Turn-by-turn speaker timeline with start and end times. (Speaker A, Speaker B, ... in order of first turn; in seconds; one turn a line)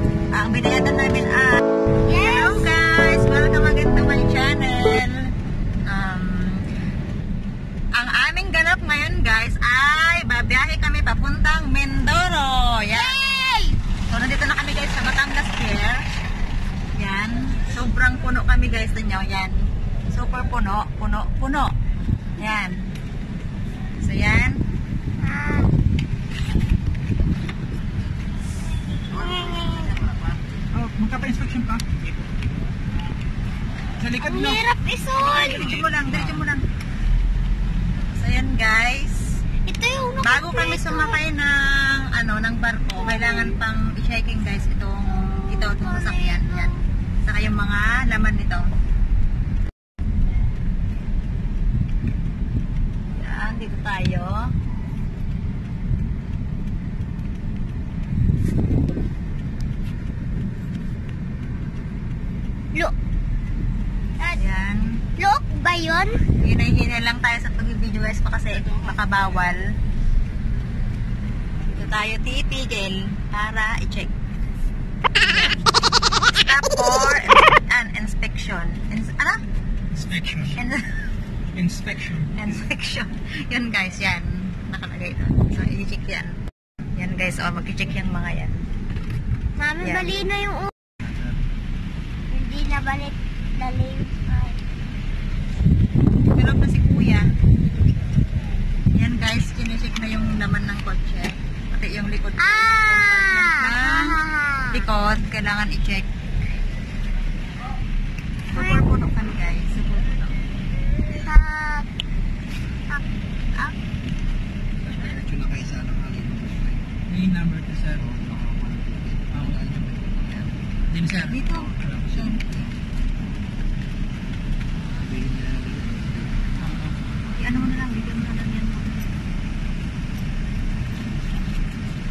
Speaker A: 0.3-1.6
Speaker B: 2.0-2.7
Speaker A: 2.2-5.3
Speaker A: 5.8-6.6
Speaker A: 7.9-13.5
Speaker B: 12.9-13.8
Speaker A: 14.1-16.0
Speaker A: 17.0-19.6
Speaker A: 20.1-21.7
Speaker A: 22.4-22.9
Speaker A: 24.0-24.6
Speaker B: 25.2-25.7
Speaker B: 29.0-30.0
Speaker C: 30.7-32.0
Speaker C: 34.0-34.6
Speaker B: 34.2-35.7
Speaker A: 35.2-36.6
Speaker C: 35.5-36.4
Speaker A: 38.1-39.4
Speaker B: 39.6-41.2
Speaker A: 40.2-46.7
Speaker B: 43.0-43.5
Speaker B: 45.1-46.7
Speaker A: 47.2-48.7
Speaker A: 53.1-54.5
Speaker A: 64.4-65.0
Speaker B: 65.2-66.2
Speaker A: 66.4-69.7
Speaker A: 71.7-74.1
Speaker A: 75.1-75.7
Speaker A: 76.2-79.4
Speaker C: 79.9-80.6
Speaker A: 80.5-80.9
Speaker C: 81.5-82.3
Speaker A: 82.3-86.4
Speaker A: 87.0-88.5
Speaker B: 89.6-90.7
Speaker A: 89.8-90.2
Speaker B: 92.3-94.6
Speaker A: 96.3-97.3
Speaker A: 99.0-106.1
Speaker B: 102.4-104.8
Speaker A: 108.5-110.3
Speaker B: 108.5-108.8
Speaker B: 111.2-111.9
Speaker C: 117.0-118.5
Speaker C: 119.1-120.1
Speaker C: 120.9-122.2
Speaker A: 121.3-122.4
Speaker A: 127.3-129.2